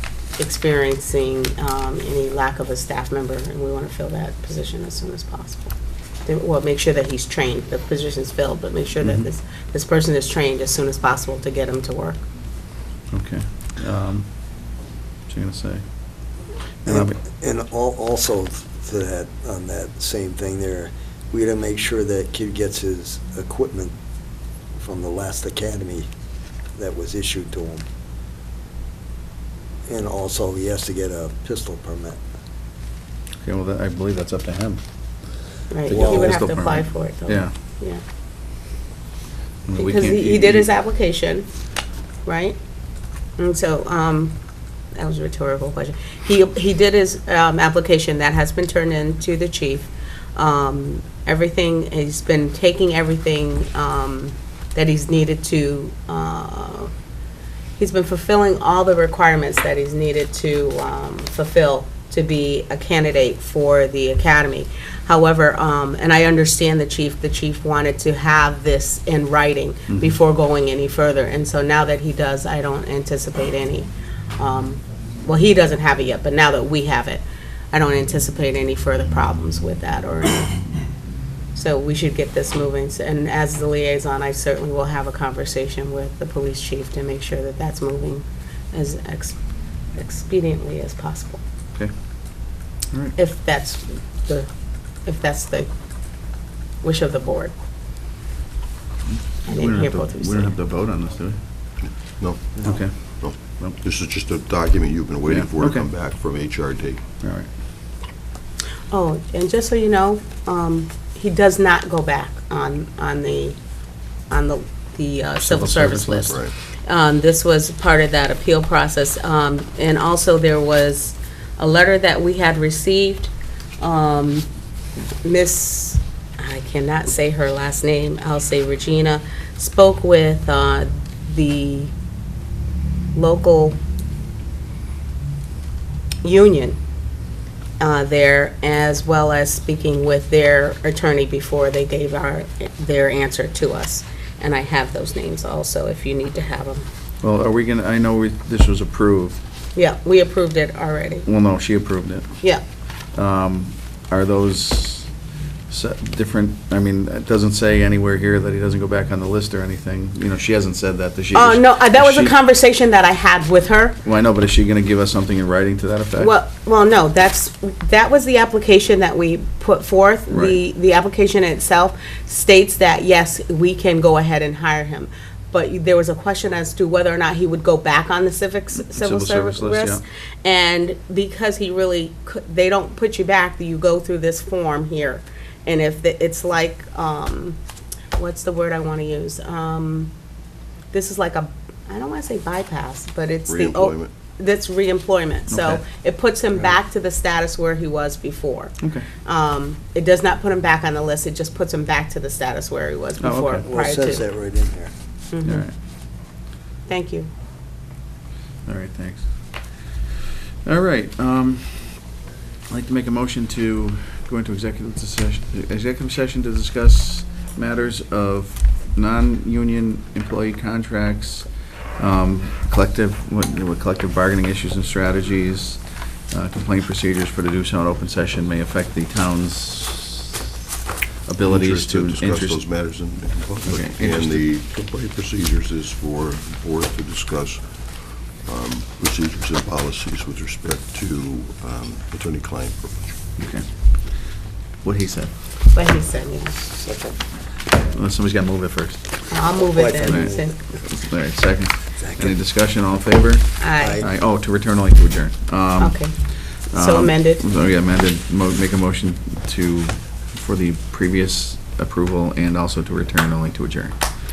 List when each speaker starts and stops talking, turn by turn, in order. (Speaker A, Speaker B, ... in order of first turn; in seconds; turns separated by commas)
Speaker A: 0.4-5.8, Speaker A: 6.3-12.2, Speaker B: 9.0-9.3, Speaker B: 13.1-16.2, Speaker B: 16.9-17.2, Speaker C: 16.9-23.9, Speaker C: 24.8-26.1, Speaker C: 26.8-27.9, Speaker C: 29.9-32.2, Speaker B: 33.4-34.8, Speaker A: 35.7-38.0, Speaker B: 35.9-37.5, Speaker C: 35.9-36.4, Speaker B: 39.7-40.7, Speaker A: 39.8-41.5, Speaker A: 42.2-42.6, Speaker A: 43.4-44.4, Speaker A: 45.0-56.9, Speaker A: 57.8-80.6, Speaker A: 81.5-89.4, Speaker A: 90.0-91.4, Speaker A: 93.2-94.5, Speaker A: 95.0-95.7, Speaker A: 96.8-97.5, Speaker B: 99.1-101.4, Speaker A: 99.5-100.6, Speaker D: 101.8-107.0, Speaker B: 102.6-103.8, Speaker B: 105.3-105.8, Speaker B: 107.2-107.5, Speaker A: 108.9-113.6, Speaker A: 114.3-124.5, Speaker B: 115.4-116.3, Speaker D: 116.3-116.5, Speaker A: 125.2-131.9, Speaker A: 133.2-133.8, Speaker A: 136.2-136.8, Speaker A: 137.8-146.9, Speaker B: 147.2-149.4, Speaker A: 149.8-151.3, Speaker B: 151.3-155.1, Speaker B: 155.7-162.4, Speaker A: 161.3-164.0, Speaker B: 164.0-166.4, Speaker A: 166.2-187.6, Speaker B: 170.3-170.6, Speaker B: 178.8-180.0, Speaker A: 188.2-190.1, Speaker A: 190.9-204.2, Speaker D: 193.5-194.1, Speaker B: 195.5-195.8, Speaker B: 198.8-199.1, Speaker B: 203.2-203.7, Speaker C: 203.6-204.9, Speaker A: 205.3-205.7, Speaker B: 205.4-205.7, Speaker A: 206.9-207.3, Speaker B: 208.7-210.1, Speaker B: 210.7-212.2, Speaker B: 212.7-230.4, Speaker B: 231.3-232.6, Speaker D: 231.4-243.2, Speaker B: 233.6-234.4, Speaker B: 243.4-245.3, Speaker A: 245.7-246.6, Speaker C: 246.7-247.2, Speaker B: 247.9-249.4, Speaker A: 249.3-250.6, Speaker C: 249.6-250.6, Speaker B: 250.0-264.0, Speaker C: 252.0-252.4, Speaker A: 253.6-254.0, Speaker C: 253.8-254.1, Speaker A: 255.8-257.4